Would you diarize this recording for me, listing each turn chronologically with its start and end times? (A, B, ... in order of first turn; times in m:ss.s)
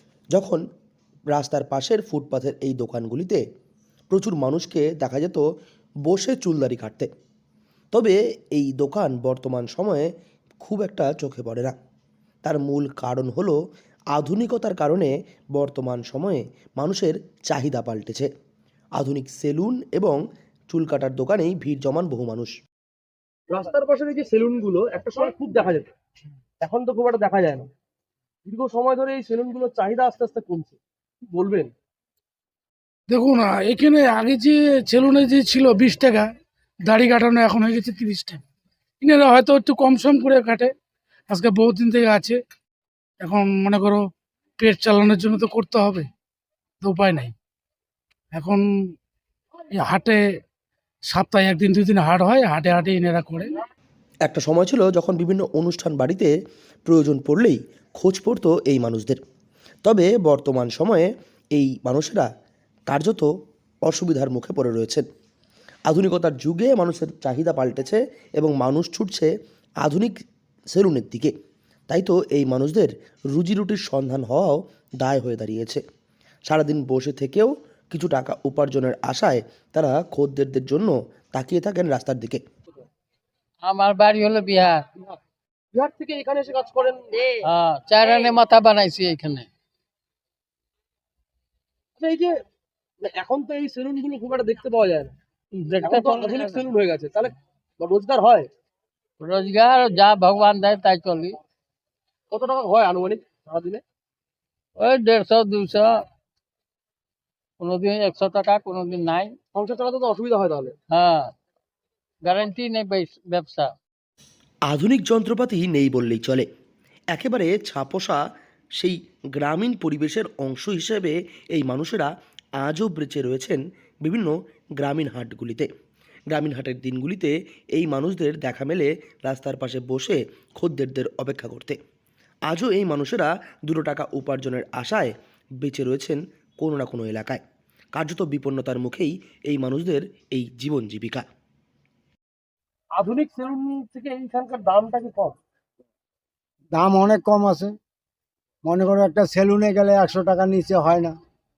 0:00.3-0:00.6 A
0:01.3-0:03.4 A
0:04.1-0:05.4 A
0:06.1-0:07.1 A
0:07.9-0:10.1 A
0:10.6-0:11.8 A
0:12.4-0:13.6 A
0:14.1-0:18.3 A
0:19.0-0:20.2 A
0:20.7-0:22.5 A
0:23.5-0:25.9 B
0:26.6-0:27.7 B
0:28.5-0:30.8 B
0:31.3-0:31.7 B
0:33.1-0:36.3 C
0:36.9-0:38.4 C
0:39.0-0:40.7 C
0:41.3-0:42.4 C
0:43.2-0:44.0 C
0:44.6-0:46.1 C
0:46.8-0:47.3 C
0:48.3-0:48.6 C
0:49.8-0:50.2 C
0:51.1-0:53.5 C
0:54.2-0:56.3 A
0:56.9-0:59.2 A
0:59.8-1:02.3 A
1:02.9-1:03.3 A
1:03.9-1:05.0 A
1:05.9-1:09.3 A
1:09.8-1:10.1 A
1:10.7-1:11.3 A
1:11.9-1:15.8 A
1:16.5-1:22.4 A
1:23.6-1:24.8 D
1:25.7-1:27.4 B
1:27.4-1:29.5 D
1:32.0-1:32.3 B
1:33.0-1:35.2 B
1:35.5-1:36.7 D
1:35.8-1:38.5 B
1:39.2-1:41.4 D
1:42.3-1:43.8 B
1:44.8-1:46.0 D
1:47.6-1:49.4 D
1:49.5-1:50.8 B
1:50.9-1:51.3 D
1:52.2-1:53.7 D
1:54.7-1:56.5 A
1:57.1-1:58.2 A
1:58.8-2:02.1 A
2:02.6-2:05.7 A
2:06.3-2:11.8 A
2:12.5-2:17.4 A
2:17.9-2:21.2 A
2:23.0-2:25.4 B
2:26.7-2:27.7 E
2:28.6-2:31.1 E